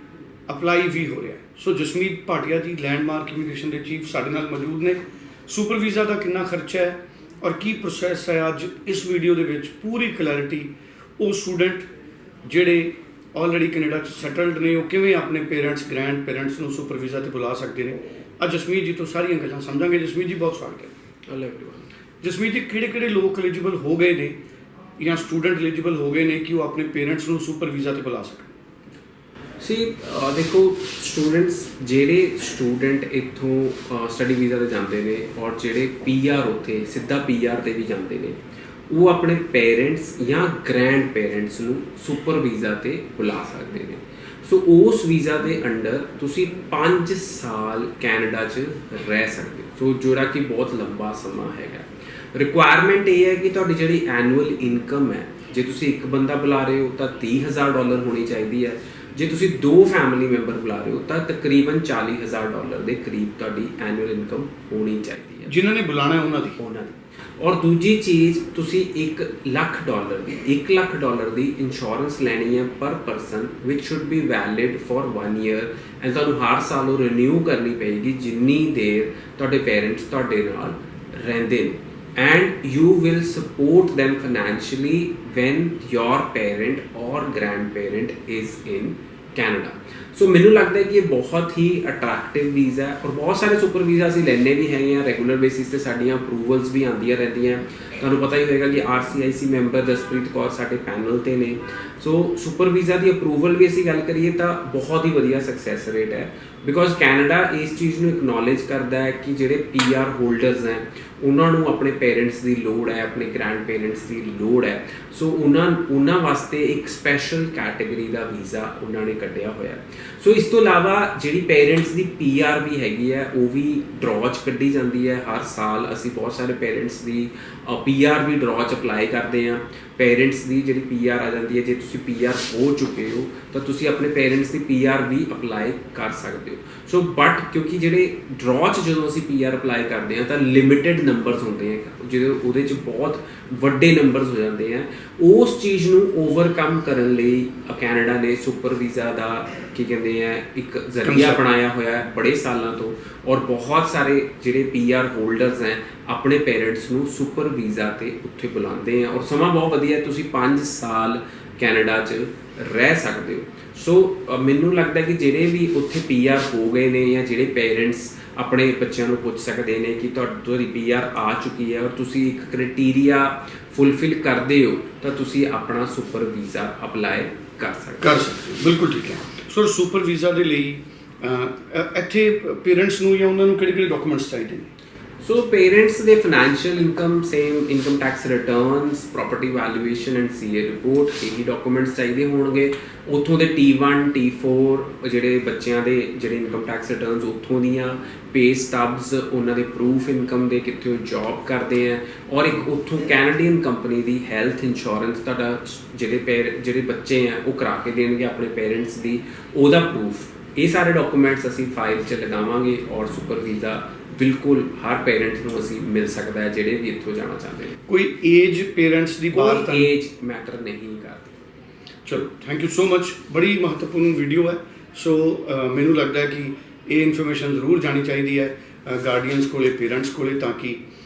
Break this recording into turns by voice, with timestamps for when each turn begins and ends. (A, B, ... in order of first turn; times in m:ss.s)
0:00.5-0:11.9 A
0:12.4-0:20.9 A
0:21.3-0:21.9 B
0:22.2-0:24.4 A
0:25.0-0:28.5 A
0:29.6-0:38.4 B
0:38.9-1:05.5 B
1:05.5-1:06.6 A
1:06.6-2:58.2 B
2:31.0-2:31.4 A
2:58.0-3:04.7 A
3:05.2-3:37.8 B
3:37.9-3:39.9 A
3:39.3-3:41.3 B
3:42.1-3:50.8 A